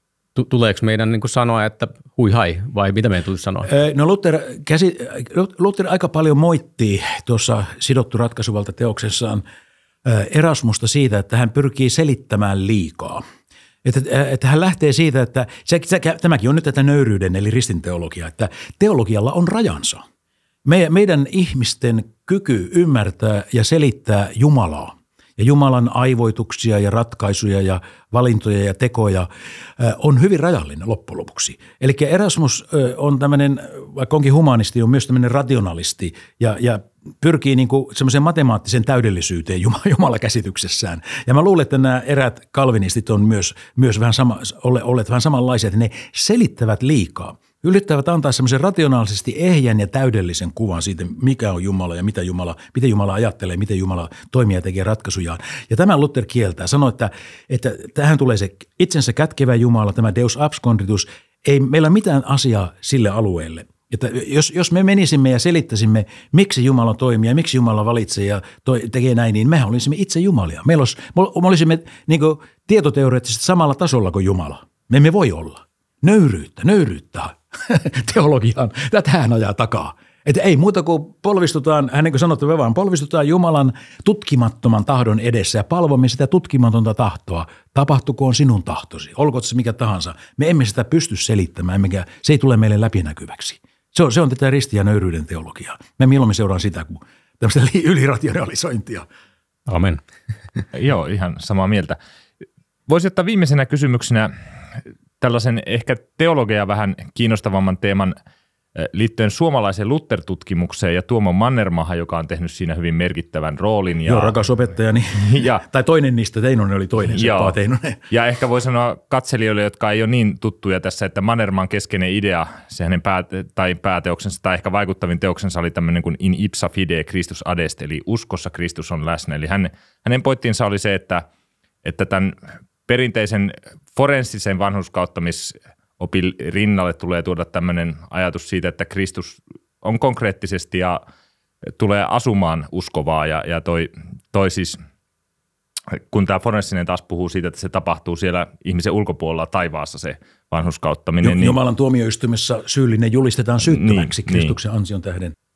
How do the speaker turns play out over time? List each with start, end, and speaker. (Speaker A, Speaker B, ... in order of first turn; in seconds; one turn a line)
Speaker A: 0.4-3.7
Speaker B: 3.7-9.4
Speaker B: 10.0-13.2
Speaker B: 13.8-20.0
Speaker B: 20.6-99.1
Speaker A: 99.7-100.0
Speaker C: 100.7-102.0
Speaker C: 102.9-104.3
Speaker C: 105.2-108.2
Speaker C: 108.8-114.3
Speaker B: 114.0-118.0
Speaker C: 115.2-115.6
Speaker C: 117.1-117.6
Speaker C: 118.1-131.3
Speaker C: 131.8-132.3
Speaker C: 132.9-141.0
Speaker C: 141.8-144.8
Speaker C: 145.9-151.6
Speaker B: 151.2-155.3
Speaker C: 153.7-154.6